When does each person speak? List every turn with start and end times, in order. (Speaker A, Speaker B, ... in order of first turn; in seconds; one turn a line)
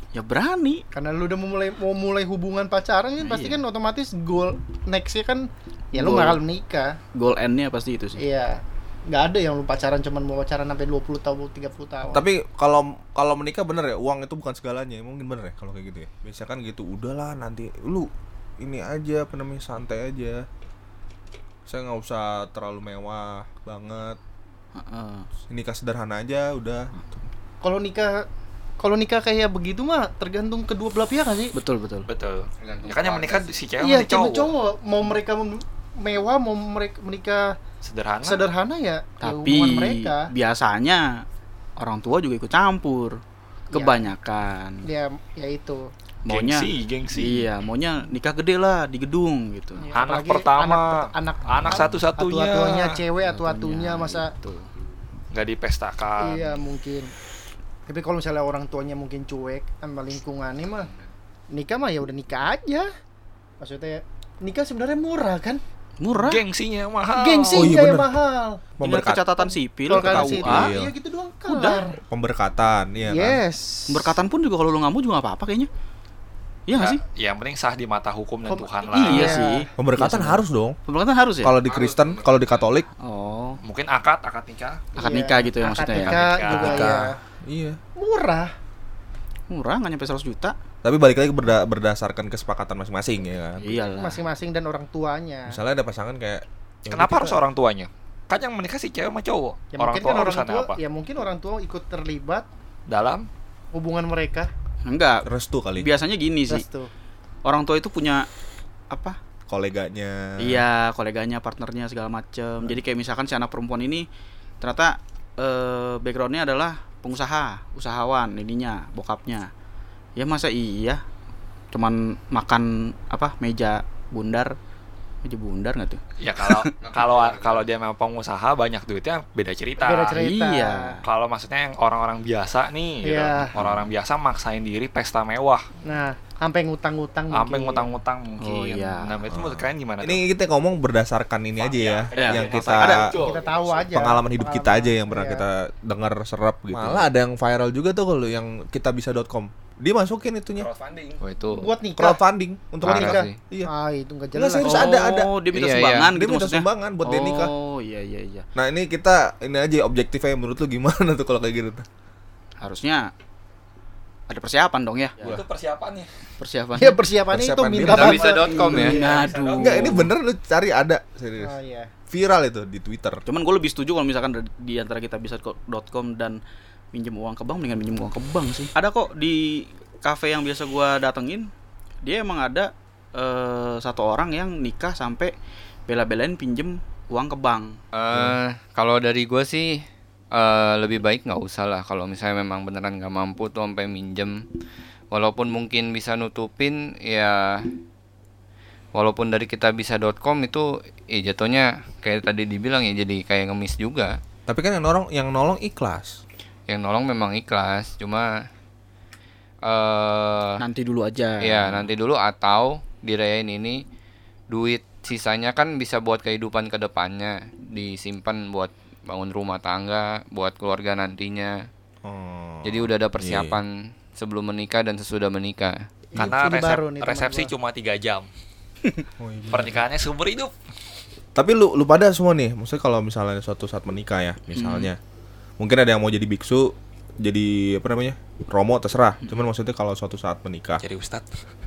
Speaker A: 0.1-0.8
Speaker B: 0.9-7.0
Speaker A: 3.2-3.6
Speaker A: 5.9-6.4
Speaker A: 7.1-8.2
Speaker B: 8.2-12.2
Speaker C: 12.1-20.4
Speaker C: 21.7-24.2
Speaker A: 24.7-25.3
Speaker C: 25.5-27.2
Speaker B: 27.6-28.2
Speaker B: 28.8-31.5
Speaker A: 31.5-32.1
Speaker D: 32.1-34.5
Speaker E: 32.6-33.5
Speaker B: 33.8-37.6
Speaker D: 37.8-38.5
Speaker B: 38.2-40.3
Speaker A: 39.2-41.2
Speaker A: 41.8-44.9
Speaker B: 43.7-44.0
Speaker B: 44.8-45.9
Speaker A: 46.2-49.9
Speaker D: 46.3-47.5
Speaker B: 49.8-54.3
Speaker D: 49.9-53.0
Speaker A: 53.2-54.7
Speaker D: 55.3-56.7
Speaker B: 56.2-57.1
Speaker B: 57.9-60.9
Speaker B: 61.5-62.9
Speaker B: 63.6-65.6
Speaker A: 66.0-66.4
Speaker D: 66.1-67.8
Speaker B: 67.1-68.6
Speaker C: 67.5-68.1
Speaker C: 68.8-69.3
Speaker A: 68.8-70.7
Speaker B: 69.9-72.0
Speaker C: 70.0-70.9
Speaker A: 71.5-71.9
Speaker C: 72.1-73.4
Speaker B: 73.1-74.1
Speaker A: 73.9-75.7
Speaker A: 76.7-77.0
Speaker D: 76.7-79.4
Speaker B: 78.5-79.7
Speaker A: 78.9-81.6
Speaker C: 79.8-80.8
Speaker C: 81.4-82.9
Speaker E: 81.7-82.4
Speaker A: 83.0-83.6
Speaker D: 83.6-84.8
Speaker A: 85.0-86.9
Speaker B: 85.0-87.2
Speaker D: 85.9-86.9
Speaker C: 86.5-87.8
Speaker B: 88.0-88.5
Speaker A: 89.5-90.5
Speaker C: 90.8-93.7
Speaker A: 93.6-94.2
Speaker B: 93.8-95.6
Speaker C: 95.5-97.4
Speaker D: 96.9-100.8
Speaker B: 99.7-102.5
Speaker D: 102.9-103.3
Speaker B: 103.7-104.5
Speaker A: 104.8-105.2
Speaker C: 105.2-105.9
Speaker A: 105.8-106.7
Speaker B: 106.5-106.9
Speaker A: 107.4-108.3
Speaker A: 108.9-109.2
Speaker C: 109.5-110.6
Speaker A: 110.4-114.1
Speaker A: 114.6-119.5
Speaker A: 120.2-121.0
Speaker A: 121.7-124.6
Speaker A: 125.2-126.7
Speaker D: 126.2-130.3
Speaker E: 126.8-127.6
Speaker B: 129.8-131.0
Speaker A: 130.1-131.0
Speaker D: 131.0-135.7
Speaker B: 133.0-133.5
Speaker B: 135.8-137.9
Speaker D: 137.3-140.2
Speaker A: 138.4-139.2
Speaker C: 139.3-143.1
Speaker D: 141.6-143.8
Speaker A: 142.1-143.3
Speaker B: 143.1-145.4
Speaker C: 143.9-150.7
Speaker E: 146.7-147.1
Speaker D: 150.6-151.2
Speaker E: 151.2-151.7
Speaker B: 151.5-152.2
Speaker C: 152.0-153.7
Speaker E: 152.8-153.4
Speaker B: 152.8-154.9
Speaker C: 154.3-155.3
Speaker A: 154.6-158.4
Speaker E: 155.5-156.1
Speaker C: 156.0-157.5
Speaker C: 158.5-161.8
Speaker A: 162.6-163.1
Speaker A: 164.3-165.4
Speaker D: 165.2-166.1
Speaker A: 166.4-167.0
Speaker B: 166.8-169.3
Speaker C: 167.3-168.4
Speaker E: 167.8-169.0
Speaker D: 168.3-169.9
Speaker A: 168.7-170.1
Speaker C: 169.5-171.5
Speaker B: 171.4-171.9
Speaker C: 172.1-173.2
Speaker A: 173.2-176.4
Speaker A: 176.9-181.5
Speaker A: 182.0-185.3
Speaker A: 185.9-187.8
Speaker E: 187.9-194.4
Speaker C: 188.1-188.4
Speaker E: 195.1-197.7
Speaker E: 198.9-204.2
Speaker C: 204.5-206.2
Speaker E: 206.7-208.4
Speaker E: 209.6-210.6
Speaker A: 210.6-211.9
Speaker E: 211.4-213.8
Speaker E: 214.5-221.6
Speaker C: 222.0-223.6
Speaker E: 222.6-225.8
Speaker B: 226.1-227.5
Speaker D: 226.1-228.3
Speaker C: 229.2-229.8
Speaker D: 229.5-230.5
Speaker C: 231.3-235.0
Speaker A: 234.5-234.9
Speaker C: 235.6-240.8
Speaker D: 240.8-241.4